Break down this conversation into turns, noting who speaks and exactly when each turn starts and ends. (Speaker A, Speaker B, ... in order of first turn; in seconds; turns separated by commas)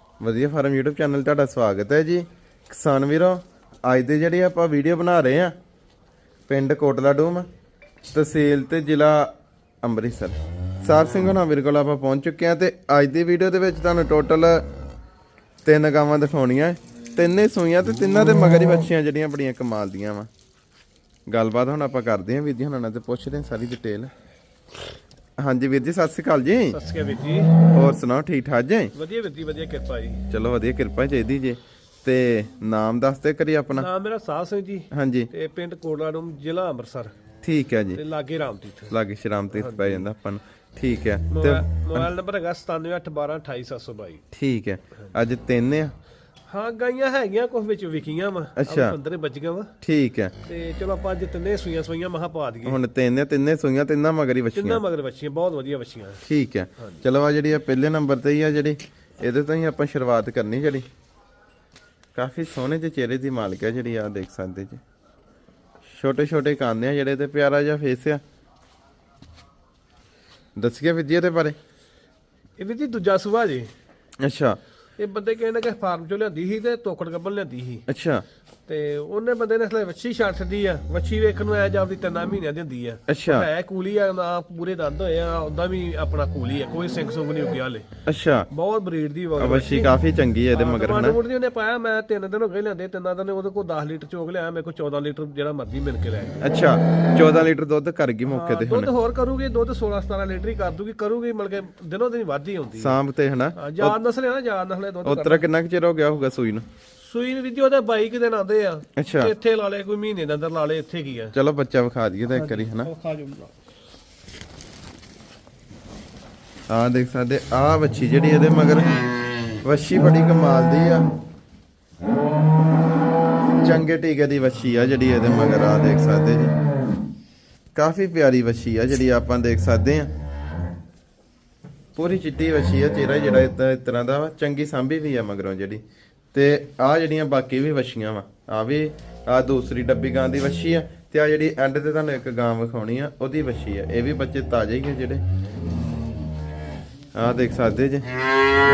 Speaker A: 0.2-5.5, Speaker A: 6.5-7.5, Speaker A: 8.1-9.3, Speaker A: 9.8-14.7, Speaker A: 15.7-20.3, Speaker A: 21.3-24.1, Speaker A: 25.4-26.8, Speaker B: 26.7-27.6, Speaker A: 27.6-28.9, Speaker B: 28.9-30.2, Speaker A: 30.3-33.9, Speaker B: 33.7-37.1, Speaker A: 34.9-35.3, Speaker A: 37.4-38.0, Speaker B: 38.0-39.0, Speaker A: 38.9-42.1, Speaker B: 39.5-40.0, Speaker B: 41.3-44.2, Speaker A: 44.3-45.9, Speaker B: 46.5-49.7, Speaker A: 48.6-49.0, Speaker A: 49.8-50.4, Speaker B: 50.4-52.8, Speaker A: 52.6-54.8, Speaker B: 54.6-56.2, Speaker A: 56.2-60.9, Speaker B: 56.8-57.0, Speaker A: 62.1-64.8, Speaker A: 65.9-68.2, Speaker A: 70.6-71.6, Speaker B: 72.6-73.7, Speaker A: 74.2-74.6, Speaker B: 75.0-77.8, Speaker A: 77.9-78.2, Speaker B: 78.7-87.9, Speaker A: 83.1-83.5, Speaker A: 88.1-88.5, Speaker B: 88.5-90.0, Speaker A: 89.4-91.2, Speaker B: 90.5-96.5, Speaker A: 96.4-98.9, Speaker B: 98.3-103.0, Speaker A: 102.8-104.0, Speaker B: 103.5-105.5, Speaker A: 105.0-106.7, Speaker B: 107.0-111.3, Speaker A: 109.0-109.3, Speaker A: 111.3-112.9, Speaker B: 112.3-113.5, Speaker A: 116.7-118.9, Speaker A: 119.6-121.1, Speaker A: 123.6-126.5, Speaker A: 127.8-130.1, Speaker A: 132.0-135.8, Speaker A: 136.3-145.2, Speaker A: 147.2-148.1